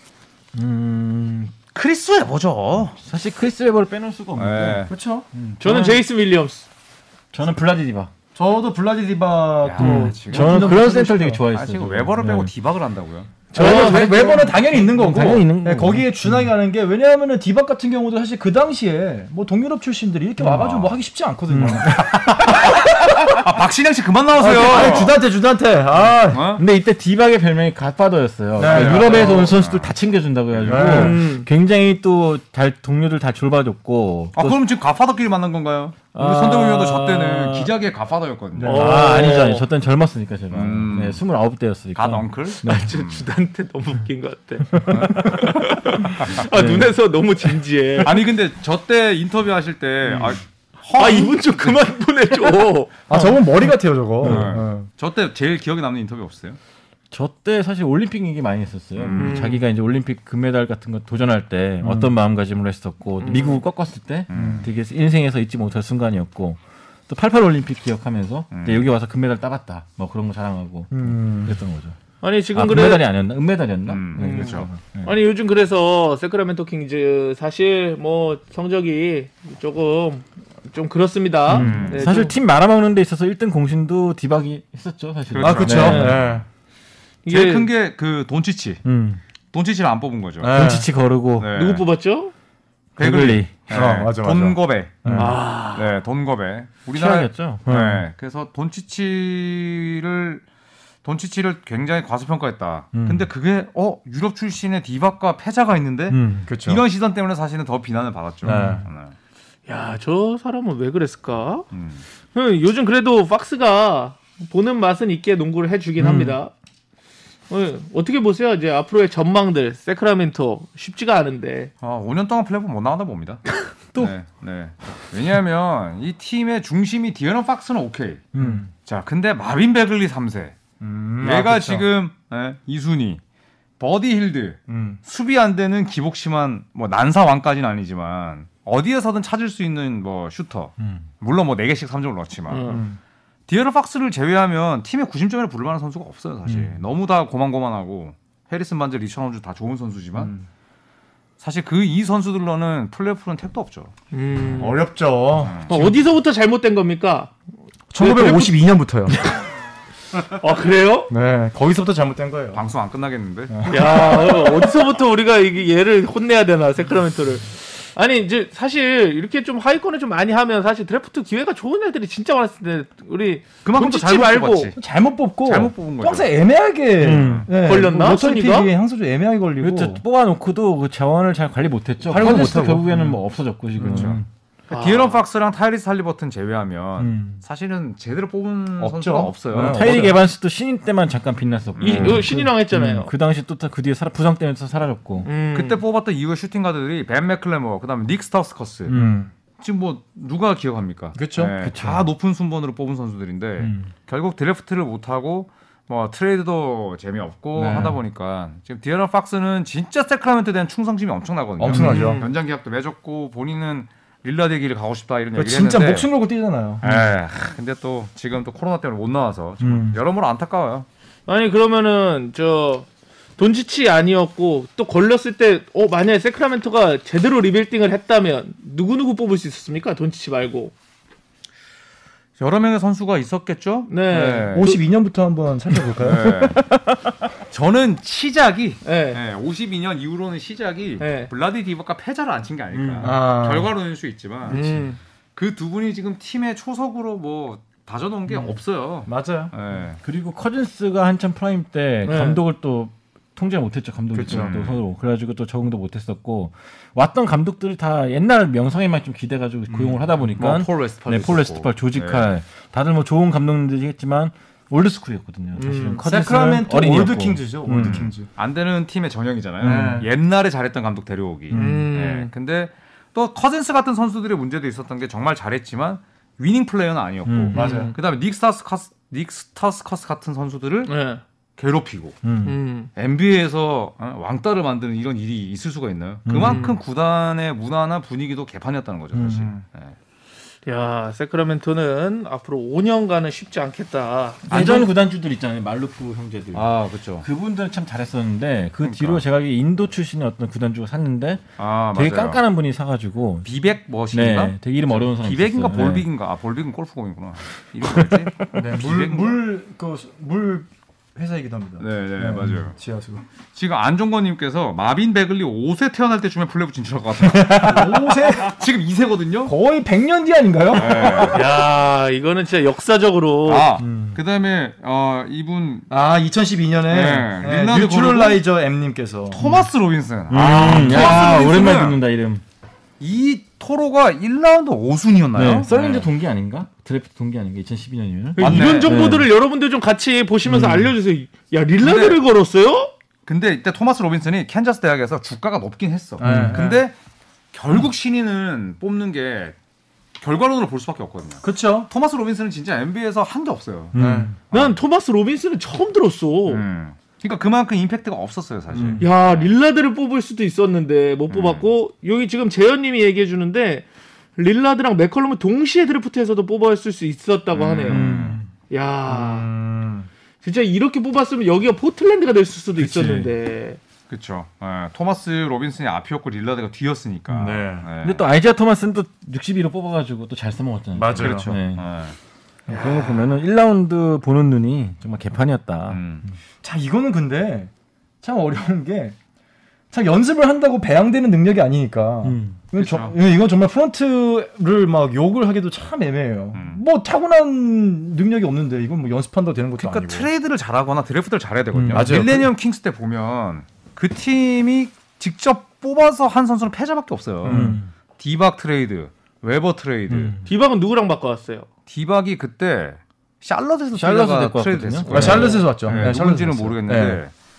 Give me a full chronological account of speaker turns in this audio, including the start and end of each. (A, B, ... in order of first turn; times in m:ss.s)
0:00.5-0:01.5 A
0:01.7-0:03.0 B
0:03.0-0:06.0 A
0:04.4-0:04.9 B
0:04.9-0:05.3 C
0:05.6-0:06.6 D
0:07.3-0:08.1 A
0:08.4-0:11.4 C
0:09.6-0:10.8 B
0:09.8-0:12.5 A
0:11.5-0:13.4 B
0:13.5-0:14.5 D
0:13.5-0:16.5 A
0:13.5-0:23.4 C
0:20.4-0:20.7 A
0:20.5-0:20.9 B
0:21.5-0:22.6 A
0:22.0-0:25.2 B
0:24.4-0:26.5 C
0:26.3-0:26.6 B
0:26.6-0:34.6 A
0:28.6-0:29.3 C
0:28.7-0:29.9 B
0:30.6-0:31.2 C
0:30.8-0:31.5 D
0:34.4-0:38.8 B
0:36.1-0:37.7 A
0:38.6-0:39.1 C
0:38.6-0:39.6 D
0:38.7-0:42.9 A
0:40.5-0:41.2 B
0:42.0-0:43.2 B
0:42.6-0:48.2 D
0:44.8-0:45.5 A
0:44.9-0:45.3 B
0:46.4-0:47.0 A
0:48.0-0:51.9 B
0:51.0-0:53.0 D
0:53.1-0:54.9 C
0:54.2-0:54.6 A
0:54.2-0:56.6 B
0:57.1-1:12.0 A
0:59.0-0:59.4 B
0:59.2-0:59.6 D
1:01.8-1:02.1 C
1:03.2-1:03.6 D
1:04.3-1:04.7 B
1:04.3-1:04.6 C
1:08.5-1:08.8 B
1:10.9-1:11.6 C
1:12.2-1:13.1 D
1:12.5-1:15.1 A
1:13.9-1:14.7 B
1:14.2-1:22.4 D
1:21.5-1:26.4 A
1:21.5-1:22.0 B
1:25.3-1:26.1 B
1:25.4-1:26.4 C
1:25.8-1:26.2 D
1:27.2-1:27.7 D
1:27.3-1:28.8 B
1:28.8-1:29.2 A
1:29.5-1:30.5 B
1:30.4-1:30.9 C
1:30.5-1:31.5 A
1:31.4-1:31.9 B
1:31.5-1:32.3 D
1:33.0-1:33.5 A
1:33.0-1:40.4 B
1:33.7-1:35.4 C
1:35.2-1:35.9 D
1:36.9-1:38.0 A
1:41.0-1:49.1 B
1:42.9-1:43.3 A
1:46.1-1:46.5 A
1:46.5-1:46.8 C
1:48.4-1:48.8 A
1:48.4-1:48.8 C
1:49.7-1:51.6 D
1:51.7-1:52.0 B
1:52.3-1:56.5 D
1:56.0-1:56.4 A
1:57.5-2:01.7 D
2:01.8-2:03.4 B
2:04.0-2:10.6 B
2:08.3-2:08.7 A
2:10.8-2:11.8 C
2:11.2-2:13.2 B
2:13.8-2:22.8 B
2:14.7-2:15.0 C
2:20.8-2:21.0 A
2:22.5-2:22.8 D
2:22.6-2:23.0 C
2:23.5-2:30.3 B
2:26.5-2:26.7 A
2:30.2-2:30.4 C
2:31.4-2:33.9 B
2:34.1-2:34.8 D
2:34.6-2:35.9 C
2:35.4-2:35.9 B
2:35.7-2:37.3 D
2:37.9-2:39.2 C
2:38.0-2:38.6 D
2:40.4-2:41.1 D
2:41.1-2:42.6 C
2:42.5-2:44.2 B
2:43.5-2:44.7 C
2:43.7-2:54.7 D
2:53.6-2:54.8 B
2:54.8-3:00.0 C
2:55.4-2:56.3 B
2:57.0-2:57.5 A
2:57.0-2:57.5 B
2:57.6-2:58.7 D
2:59.6-3:04.2 A
3:02.0-3:03.2 C
3:03.8-3:10.1 B
3:03.8-3:04.1 C
3:04.7-3:05.2 D
3:07.0-3:07.4 A
3:08.8-3:10.2 C
3:09.6-3:15.3 A
3:11.8-3:12.2 B
3:11.8-3:13.1 D
3:15.2-3:15.8 D
3:15.5-3:18.9 B
3:18.9-3:19.3 A
3:18.9-3:19.3 C
3:19.6-3:36.1 B
3:21.2-3:21.5 C
3:21.6-3:22.1 A
3:23.6-3:23.9 A
3:27.6-3:28.0 C
3:31.6-3:32.3 C
3:31.7-3:32.3 D
3:35.4-3:36.8 C
3:36.8-3:37.1 A
3:36.8-3:40.9 B
3:39.6-3:40.0 A
3:41.3-3:50.7 D
3:52.4-3:54.8 B
3:53.9-3:54.8 D
3:54.5-3:56.6 C
3:56.0-3:56.6 B
3:57.5-4:04.8 B
3:58.8-3:59.2 D
4:01.0-4:01.3 D
4:02.7-4:03.2 A
4:03.0-4:03.7 C
4:04.5-4:05.0 D
4:05.4-4:10.0 B
4:09.1-4:09.5 C
4:10.0-4:28.0 A
4:12.0-4:12.4 D
4:14.1-4:14.6 C
4:14.3-4:14.8 B
4:19.7-4:22.2 B
4:25.6-4:26.0 D
4:26.0-4:28.3 C
4:27.8-4:40.9 B
4:29.6-4:30.1 C
4:31.5-4:31.8 A
4:31.5-4:32.3 D
4:37.2-4:37.6 A
4:37.5-4:37.9 C
4:37.5-4:37.9 D
4:40.9-4:41.2 D
4:41.6-4:42.2 B
4:42.2-4:42.6 A
4:42.4-4:42.9 D
4:43.0-4:49.9 B
4:46.2-4:46.7 A
4:46.4-4:46.7 D
4:49.1-4:49.5 A
4:50.6-4:54.5 D
4:54.5-5:03.5 A
4:54.5-4:54.9 B
4:56.5-4:57.2 B
4:58.8-4:59.2 B
5:01.6-5:02.4 B
5:03.4-5:09.4 B
5:04.1-5:06.1 A
5:08.5-5:13.2 C
5:11.8-5:12.7 B
5:13.5-5:19.5 B
5:17.3-5:17.9 A
5:17.6-5:18.6 C
5:19.5-5:21.6 C
5:20.7-5:21.5 B
5:21.3-5:23.7 D
5:23.4-5:25.9 B
5:23.8-5:24.2 A
5:25.9-5:29.4 C
5:26.9-5:28.4 B
5:29.3-5:32.0 B
5:30.3-5:32.4 A
5:30.7-5:31.2 C
5:33.0-5:36.0 B
5:35.4-5:39.3 A
5:38.4-5:42.9 D
5:38.4-5:39.1 B
5:40.5-5:40.8 C
5:40.5-5:40.8 A
5:41.8-5:42.2 B
5:43.2-5:47.0 B
5:46.2-5:46.8 C
5:46.2-5:46.6 A
5:47.5-5:49.6 B
5:50.2-5:53.9 B
5:51.4-5:51.9 C
5:53.9-5:54.3 A
5:53.9-5:54.3 C
5:54.5-5:54.8 B
5:54.5-5:56.6 D
5:56.5-5:59.5 B
5:58.7-5:59.0 A
5:59.0-6:08.0 D
6:01.3-6:01.7 B
6:07.5-6:08.4 B
6:07.9-6:08.5 A
6:08.7-6:09.5 D
6:09.1-6:10.1 C
6:10.4-6:13.8 D
6:12.8-6:13.3 A
6:14.1-6:18.2 B
6:17.3-6:21.8 A
6:17.4-6:17.9 C
6:21.0-6:21.6 C
6:21.2-6:22.2 B
6:22.7-6:26.0 A
6:22.7-6:23.0 C
6:25.9-6:26.2 B
6:26.6-6:27.7 C
6:28.2-6:29.2 C
6:29.9-6:40.3 C
6:32.2-6:32.6 A
6:32.8-6:33.2 B
6:36.5-6:36.8 B
6:39.8-6:50.4 B
6:41.7-6:42.2 A
6:41.9-6:42.5 C
6:47.4-6:47.8 C
6:47.4-6:47.9 A
6:50.1-6:50.5 A
6:50.5-6:51.7 D
6:51.9-6:57.3 B
6:53.9-6:56.2 A
6:55.1-6:57.2 C
6:55.2-6:55.6 D